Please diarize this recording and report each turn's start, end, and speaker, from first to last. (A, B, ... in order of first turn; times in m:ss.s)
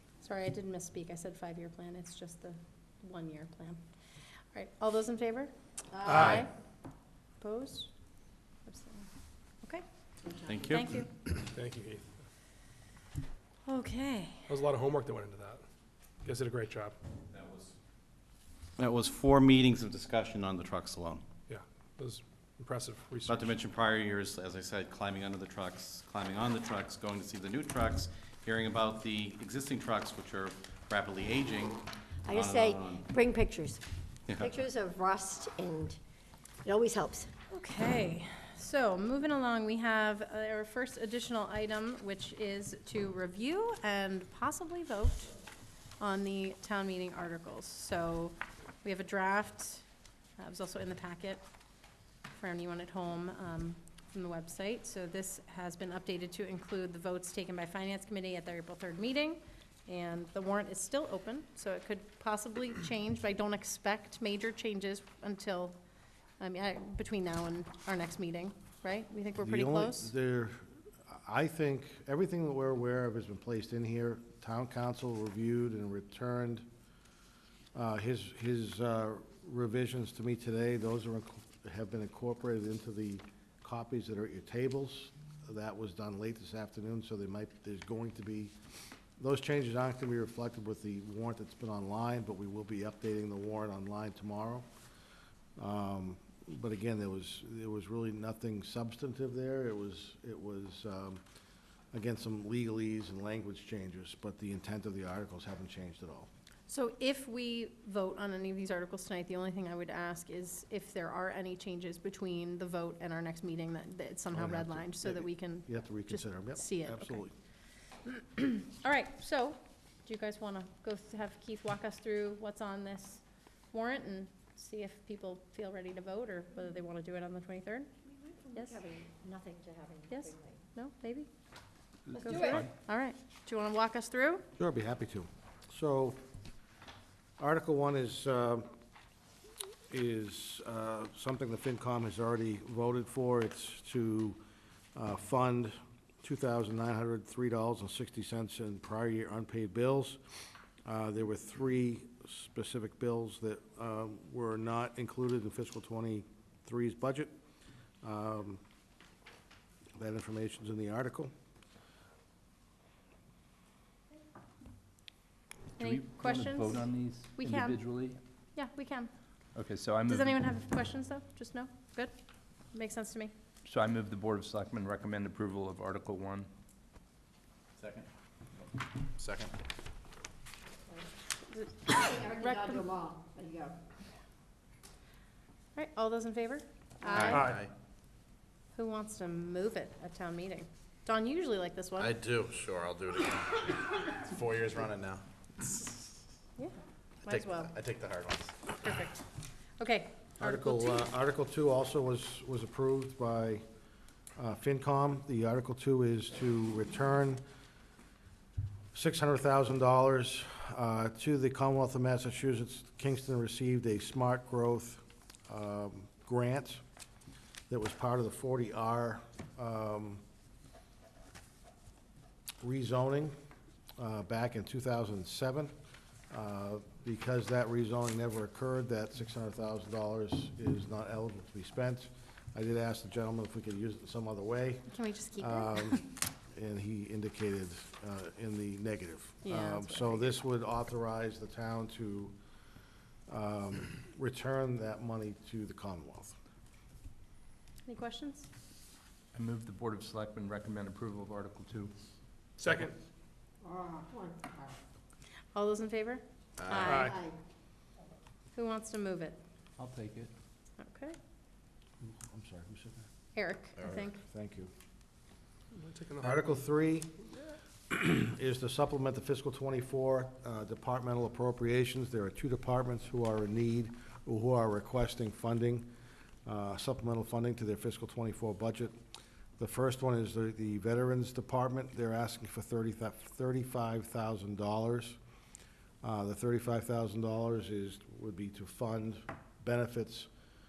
0:00.2-0:03.8 A
0:04.5-0:05.5 A
0:06.0-0:06.4 B
0:06.2-0:06.5 A
0:07.4-0:07.9 A
0:08.6-0:09.1 A
0:10.4-0:11.0 C
0:10.6-0:11.1 A
0:11.4-0:12.0 B
0:13.6-0:14.6 A
0:14.5-0:15.6 B
0:16.2-0:16.9 B
0:17.3-0:17.7 C
0:18.8-0:21.2 C
0:21.5-0:23.5 B
0:23.2-0:33.0 C
0:32.2-0:33.8 D
0:34.3-0:34.6 C
0:34.4-0:36.0 D
0:36.6-0:37.3 D
0:37.5-0:45.4 A
0:46.0-0:49.8 A
0:50.4-0:51.4 A
0:52.3-1:05.8 A
1:06.4-1:10.1 A
1:09.4-1:16.6 E
1:17.7-1:28.5 E
1:29.2-1:34.6 E
1:35.6-1:41.2 E
1:41.9-1:46.3 E
1:46.7-1:57.2 A
1:54.3-1:57.3 E
1:58.0-2:07.9 A
2:08.2-2:10.6 D
2:08.5-2:08.8 A
2:10.1-2:11.3 A
2:12.1-2:12.7 F
2:12.1-2:14.4 A
2:12.3-2:12.6 D
2:14.6-2:16.2 E
2:17.4-2:18.7 E
2:19.9-2:24.4 E
2:24.9-2:30.2 E
2:30.8-2:37.3 E
2:38.0-2:38.6 E
2:40.0-2:41.3 E
2:45.8-2:47.8 A
2:45.8-2:48.2 F
2:48.5-2:49.1 A
2:49.5-2:50.4 F
2:50.0-2:52.1 A
2:52.7-2:53.3 A
2:53.6-2:56.5 F
2:57.8-2:58.1 G
2:59.2-2:59.5 G
3:01.5-3:02.9 A
3:01.9-3:03.8 D
3:05.7-3:07.4 A
3:07.0-3:07.3 D
3:07.1-3:07.7 G
3:07.3-3:07.6 B
3:08.7-3:12.1 A
3:12.0-3:16.0 G
3:16.6-3:17.8 A
3:17.2-3:18.7 G
3:18.8-3:19.2 A
3:19.8-3:21.0 A
3:20.4-3:23.6 E
3:24.4-3:27.4 E
3:28.9-3:36.8 E
3:37.7-3:40.2 E
3:42.6-3:43.3 E
3:44.0-3:45.7 E
3:46.3-4:02.3 E
3:54.9-3:56.1 A
3:59.4-4:00.4 A
4:03.3-4:06.4 E
4:07.9-4:08.5 A
4:09.3-4:11.9 F
4:12.6-4:12.9 B
4:13.6-4:14.8 D
4:15.5-4:17.1 A
4:16.6-4:17.1 G
4:16.8-4:17.2 B
4:17.1-4:17.3 D
4:18.5-4:19.4 A
4:19.8-4:20.3 F
4:20.8-4:21.2 A
4:22.0-4:23.1 E
4:23.3-4:24.2 A
4:23.8-4:24.7 E
4:25.7-4:26.5 B
4:26.2-4:27.1 E
4:27.9-4:35.9 E
4:36.4-4:38.9 E
4:39.6-4:45.2 E
4:46.0-4:50.3 E